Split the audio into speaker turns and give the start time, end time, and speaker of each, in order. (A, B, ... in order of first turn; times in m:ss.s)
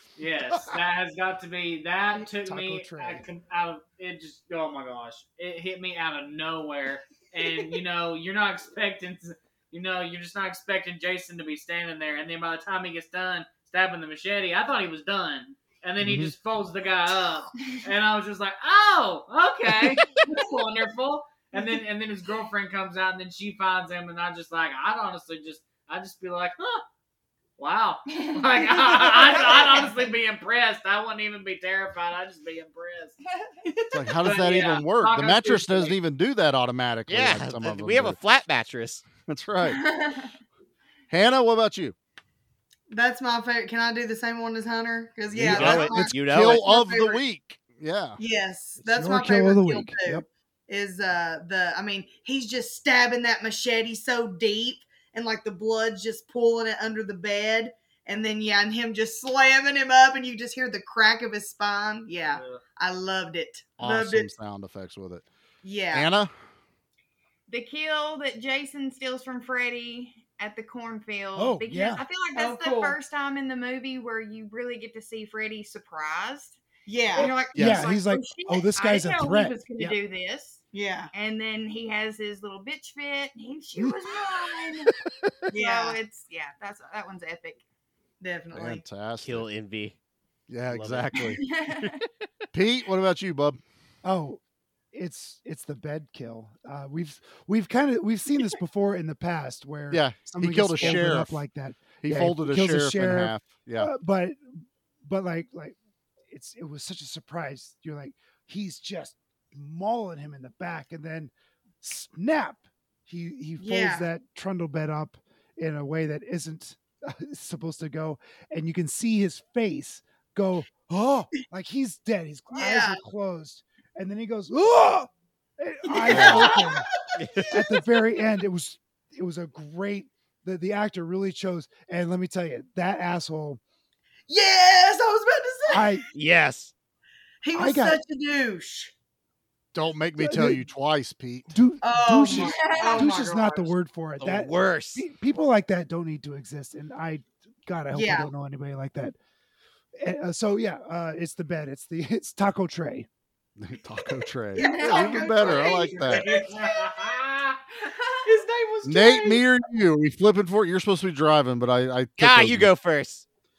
0:00.2-0:26.8 A
0:02.3-0:03.2 B
0:16.0-0:16.3 C
0:27.6-0:33.2 A
0:28.1-0:30.0 D
0:33.4-0:34.2 D
0:33.9-0:38.2 C
0:34.2-0:36.0 A
0:37.1-0:39.0 E
0:39.3-0:39.8 C
0:39.7-0:40.3 D
0:41.1-0:41.9 C
0:42.9-0:47.2 F
0:45.3-0:48.2 C
0:45.4-0:46.6 E
0:48.2-1:04.3 F
0:48.8-0:50.2 B
1:02.2-1:02.6 A
1:03.8-1:05.2 C
1:05.6-1:06.1 F
1:05.9-1:06.3 C
1:07.5-1:16.6 D
1:11.4-1:12.0 B
1:12.3-1:13.0 F
1:16.8-1:17.4 F
1:17.1-1:24.9 D
1:17.5-1:20.0 B
1:17.5-1:17.9 C
1:20.7-1:21.1 F
1:25.5-1:26.0 F
1:25.5-1:27.6 D
1:28.2-1:28.8 F
1:28.5-1:29.4 C
1:29.2-1:30.0 E
1:30.5-1:31.4 C
1:30.7-1:31.2 E
1:31.3-1:32.0 D
1:32.5-1:33.6 C
1:34.0-1:34.4 B
1:34.9-1:45.8 B
1:39.9-1:41.4 C
1:42.0-1:43.9 C
1:46.3-2:06.9 B
1:53.6-1:54.1 F
2:02.5-2:03.0 F
2:05.9-2:06.8 F
2:06.1-2:06.4 E
2:07.2-2:07.5 E
2:07.5-2:13.6 B
2:14.3-2:15.9 F
2:15.7-2:16.0 B
2:16.1-2:16.7 E
2:17.4-2:18.9 F
2:17.5-2:18.0 B
2:19.7-2:21.5 C
2:20.2-2:20.6 B
2:21.5-2:29.2 B
2:21.8-2:23.7 F
2:22.4-2:23.1 D
2:24.2-2:25.0 E
2:27.9-2:28.3 F
2:30.0-2:33.1 B
2:33.6-2:36.3 C
2:34.5-2:35.9 D
2:34.5-2:36.6 F
2:36.2-2:37.6 A
2:37.8-2:38.2 D
2:38.2-2:39.4 F
2:38.8-2:42.7 C
2:42.2-2:43.2 E